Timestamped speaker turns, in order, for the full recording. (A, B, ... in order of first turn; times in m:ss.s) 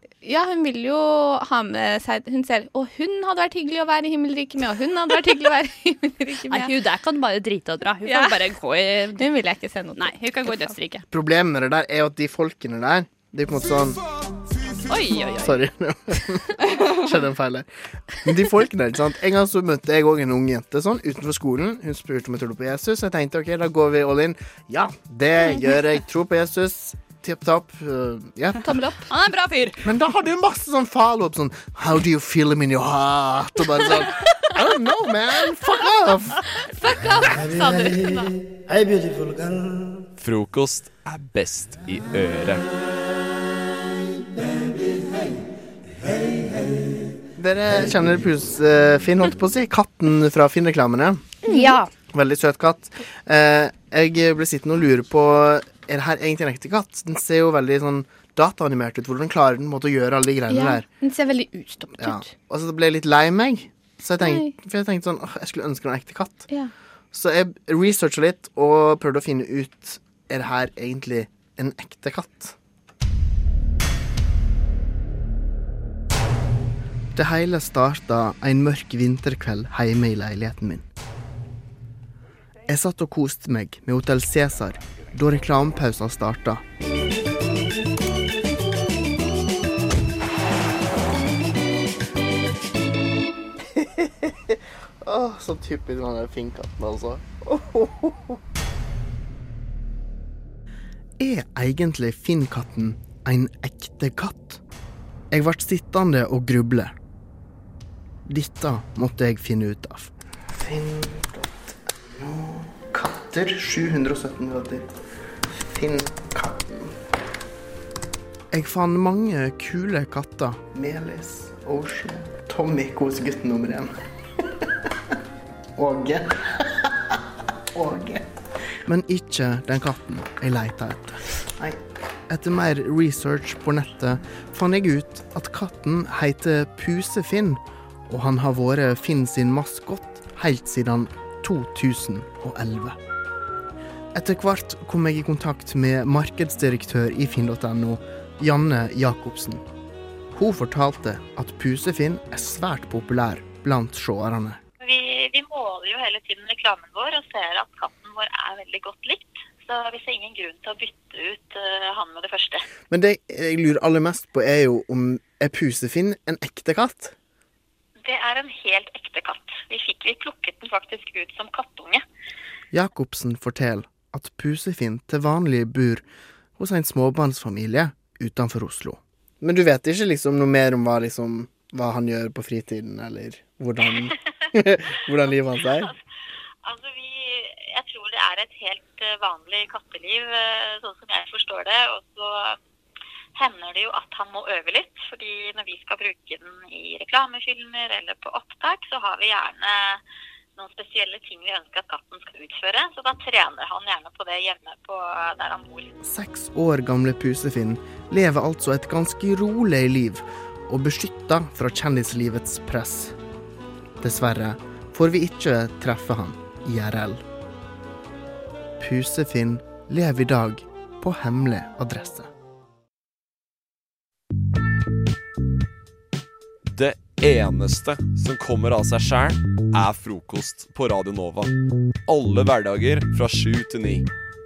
0:00.2-0:06.7 A
0:06.4-0:09.2 B
0:08.0-0:08.4 A
0:09.2-0:10.7 A
0:10.0-0:11.0 B
0:11.1-0:14.0 C
0:14.9-0:15.6 B
0:15.4-0:28.6 C
0:28.6-0:29.8 B
0:29.8-0:36.4 C
0:36.8-0:38.3 A
0:40.2-0:42.6 D
0:47.4-0:51.4 C
0:51.4-0:51.9 A
0:52.1-1:00.9 C
1:00.5-1:02.3 A
1:02.0-1:06.5 C
1:04.2-1:04.6 A
1:07.1-1:12.6 C
1:17.2-1:20.8 C
1:22.7-1:26.6 C
1:33.6-1:38.4 C
1:41.2-1:44.6 C
1:45.3-1:47.0 C
1:48.3-1:55.0 C
1:55.5-1:57.0 C
1:58.5-2:03.9 C
2:05.8-2:07.2 C
2:07.7-2:23.0 C
2:24.1-2:29.6 C
2:30.3-2:34.6 C
2:34.8-2:42.7 E
2:42.9-2:47.2 C
2:48.0-2:52.0 E
2:52.7-2:56.0 C
2:56.6-3:05.9 C
3:06.6-3:12.6 E
3:13.4-3:20.0 E
3:20.6-3:25.9 E
3:26.0-3:33.2 C
3:34.0-3:37.2 C
3:38.8-3:42.3 C
3:46.7-3:51.5 D
3:52.1-3:54.1 D